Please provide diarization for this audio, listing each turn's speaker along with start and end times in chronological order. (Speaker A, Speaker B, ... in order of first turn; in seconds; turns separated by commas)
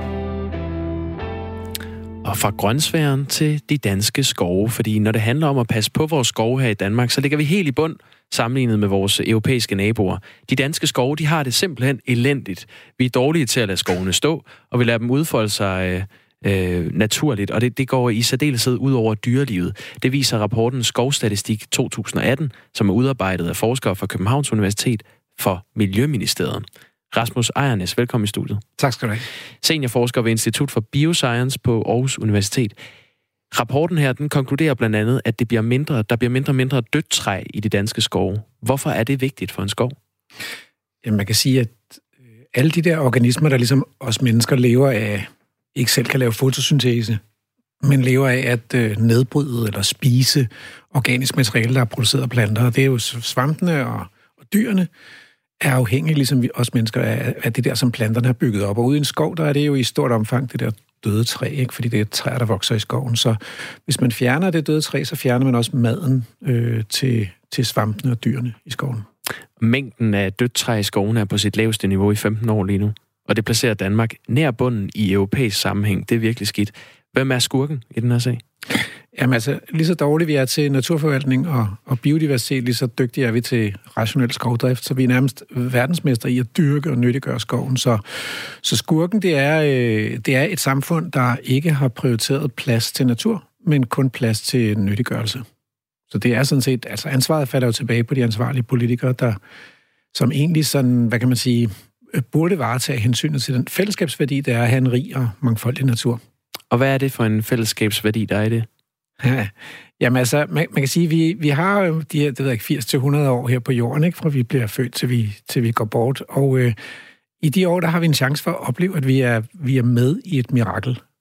Speaker A: 2.2-28.6, Speaker B: 28.8-29.2, Speaker A: 29.6-32.8, Speaker A: 33.5-40.0, Speaker B: 41.0-47.2, Speaker B: 47.8-54.9, Speaker B: 55.6-69.1, Speaker A: 69.6-78.4, Speaker B: 79.1-95.5, Speaker B: 96.1-99.4, Speaker B: 100.1-106.2, Speaker A: 106.7-108.7, Speaker B: 109.2-116.8, Speaker B: 117.4-121.0